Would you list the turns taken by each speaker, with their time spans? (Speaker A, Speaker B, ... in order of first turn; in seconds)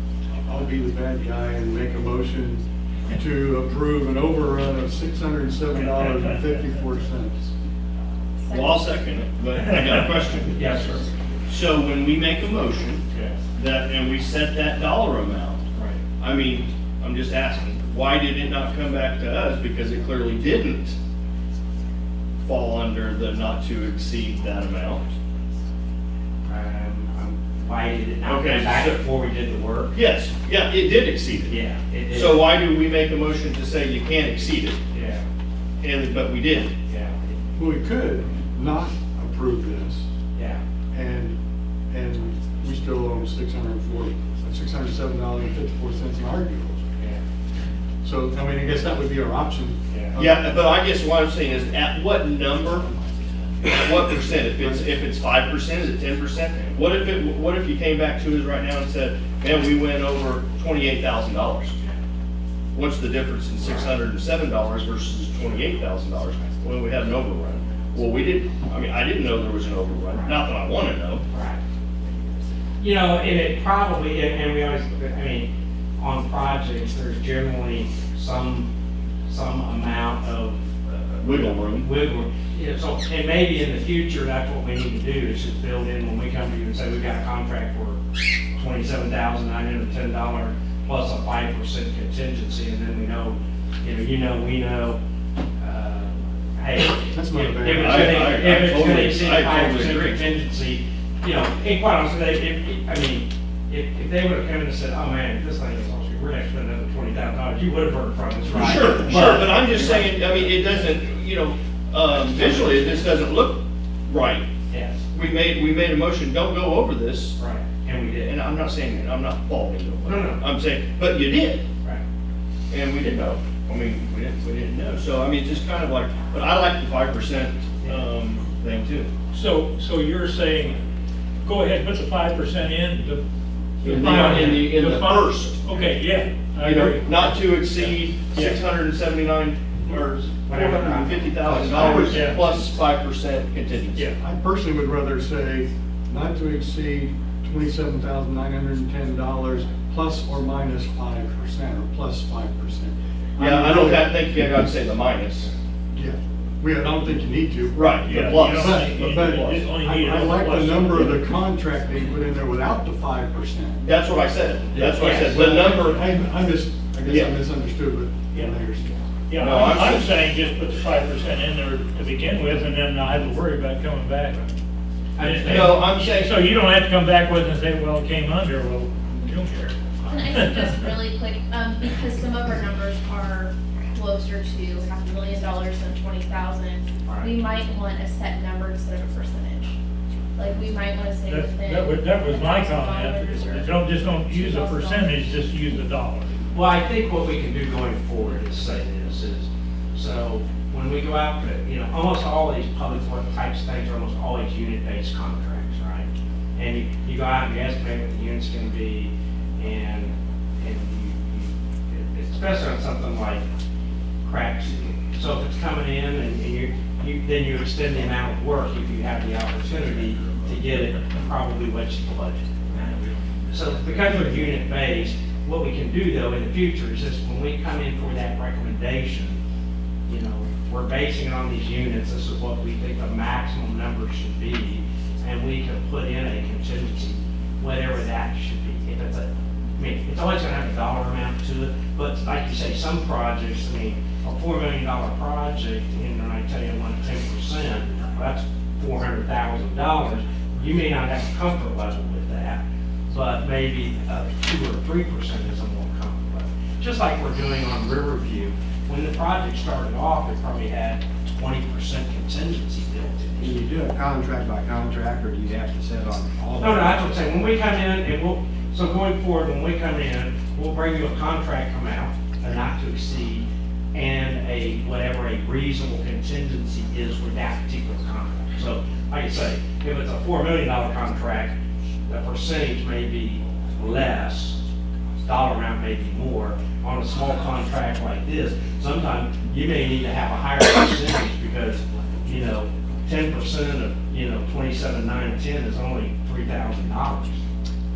Speaker A: 0.4-7.5, 37.5-40.1, 40.9-41.4, 41.9-46.9, 48.0-49.8, 97.1-98.4, 144.2-154.2, 155.9-163.9, 165.2-168.9
Speaker B: 8.4-8.9, 180.1-189.7, 190.4-195.2
Speaker C: 8.5-10.6, 11.5-15.6, 16.2-21.0, 22.4-25.0, 28.2-29.0, 29.9-31.6, 32.1-34.8, 35.8-36.7, 50.1-52.9, 53.6-61.7, 62.7-71.2, 81.2-81.9, 97.8-100.2, 108.5-114.5, 115.1-117.4, 118.2-121.6, 122.7-129.1, 133.8-135.6, 136.6-144.1, 153.4-155.5, 157.8-159.7, 163.8-166.1, 167.1-167.3, 169.4-170.1, 175.4-176.4
Speaker D: 10.5-11.1, 13.1-13.3, 15.7-16.0, 26.5-30.0, 31.5-32.5, 34.9-35.3, 36.9-37.3, 40.3-40.6, 47.0-47.2, 49.9-50.3, 70.0-70.4, 71.3-71.6, 72.8-75.5, 76.0-78.7, 79.2-88.0, 88.5-95.0, 95.6-110.2, 114.7-115.0, 117.4-118.3, 120.0-120.4, 140.5-142.5, 164.7-165.8, 175.2-175.9, 187.1-187.3, 196.5-213.4, 214.2-222.5, 223.5-229.4, 230.1-263.6, 266.6-281.5, 282.1-284.6, 285.2-297.4
Speaker E: 129.3-130.8, 131.4-133.2, 133.8-137.6, 138.3-138.6, 141.7-142.5, 158.0-161.3, 168.3-168.6, 169.3-174.6, 175.2-180.9, 191.2-196.4
Speaker F: 263.4-267.2